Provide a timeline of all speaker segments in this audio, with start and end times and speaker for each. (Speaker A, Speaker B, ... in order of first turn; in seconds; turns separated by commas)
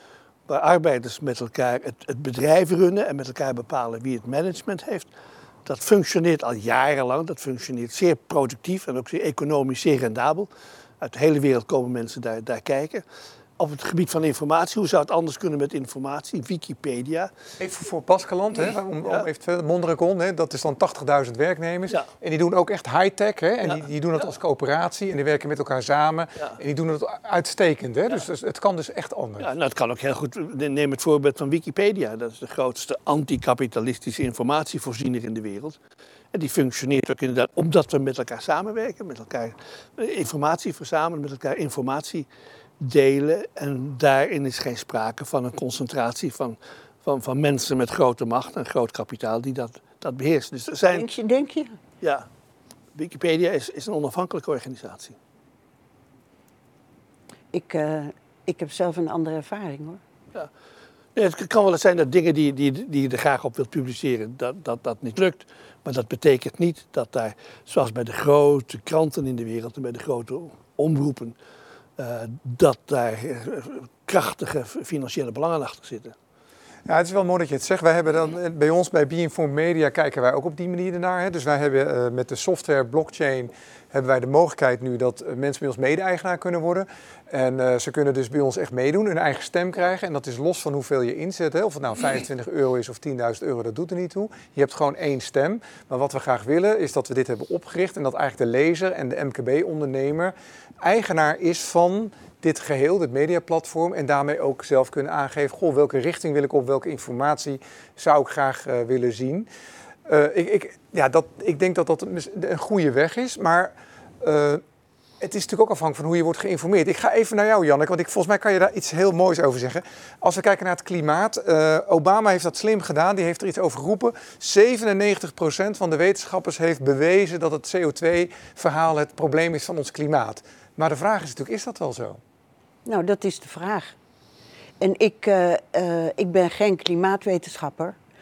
Speaker A: 0.5-5.1, Speaker A: 5.7-10.5, Speaker A: 11.0-13.0, Speaker A: 13.6-17.3, Speaker B: 17.6-29.5, Speaker A: 29.4-35.8, Speaker A: 36.3-42.3, Speaker A: 42.8-51.1, Speaker C: 50.9-51.8, Speaker A: 52.0-52.3, Speaker A: 53.0-55.2, Speaker C: 57.5-60.0, Speaker A: 61.1-71.4, Speaker A: 72.0-76.2, Speaker B: 76.9-109.5, Speaker B: 110.1-114.6, Speaker B: 115.2-132.2, Speaker C: 132.8-133.9, Speaker C: 134.8-138.0